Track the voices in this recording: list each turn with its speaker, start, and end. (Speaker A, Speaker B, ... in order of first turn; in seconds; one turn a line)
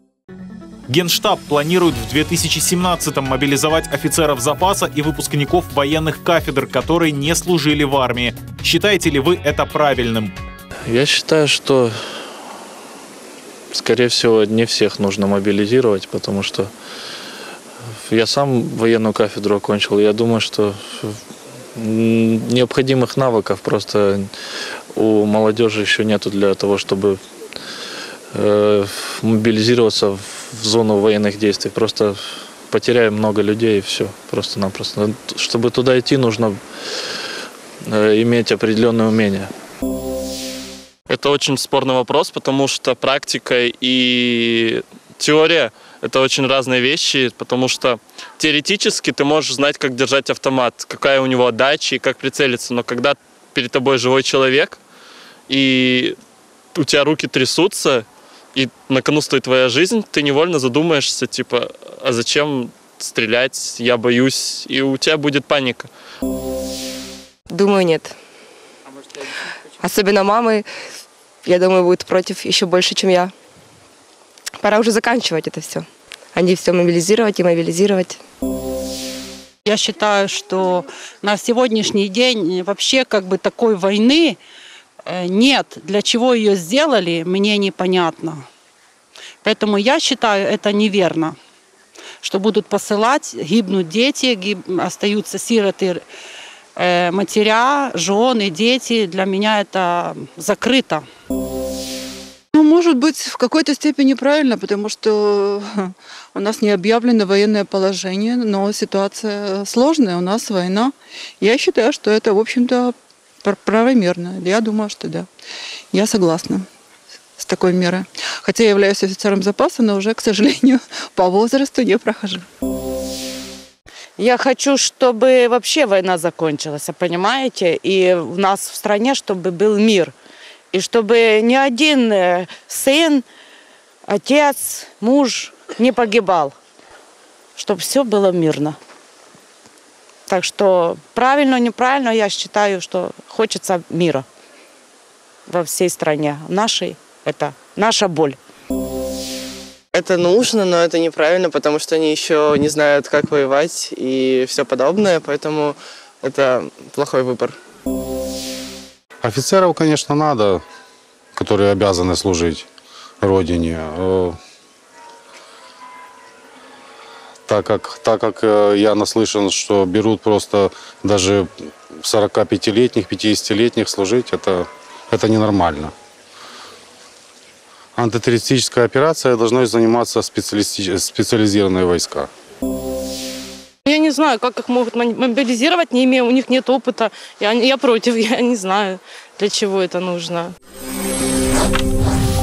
Speaker A: 0.9-10.3
Speaker B: 10.8-12.0
Speaker B: 13.7-16.7
Speaker B: 18.0-21.2
Speaker B: 21.8-24.3
Speaker B: 24.9-27.2
Speaker B: 28.3-36.6
Speaker B: 37.8-39.5
Speaker C: 41.1-54.8
Speaker C: 55.5-56.2
Speaker C: 56.7-65.9
Speaker D: 67.5-68.1
Speaker D: 69.8-70.7
Speaker D: 71.4-73.3
Speaker D: 74.6-78.2
Speaker E: 79.7-84.4
Speaker E: 85.0-88.4
Speaker E: 89.4-91.3
Speaker E: 92.2-96.0
Speaker E: 96.8-101.0
Speaker F: 102.5-115.3
Speaker F: 115.9-116.6
Speaker F: 117.4-122.4
Speaker G: 124.2-130.1
Speaker G: 130.7-133.2
Speaker G: 134.1-136.5
Speaker G: 137.6-138.8
Speaker G: 140.3-144.2
Speaker G: 145.5-148.4
Speaker H: 149.9-157.6
Speaker I: 159.2-160.6
Speaker I: 161.3-162.7
Speaker I: 163.2-164.4
Speaker I: 167.5-175.9
Speaker I: 177.9-182.3
Speaker J: 183.8-190.5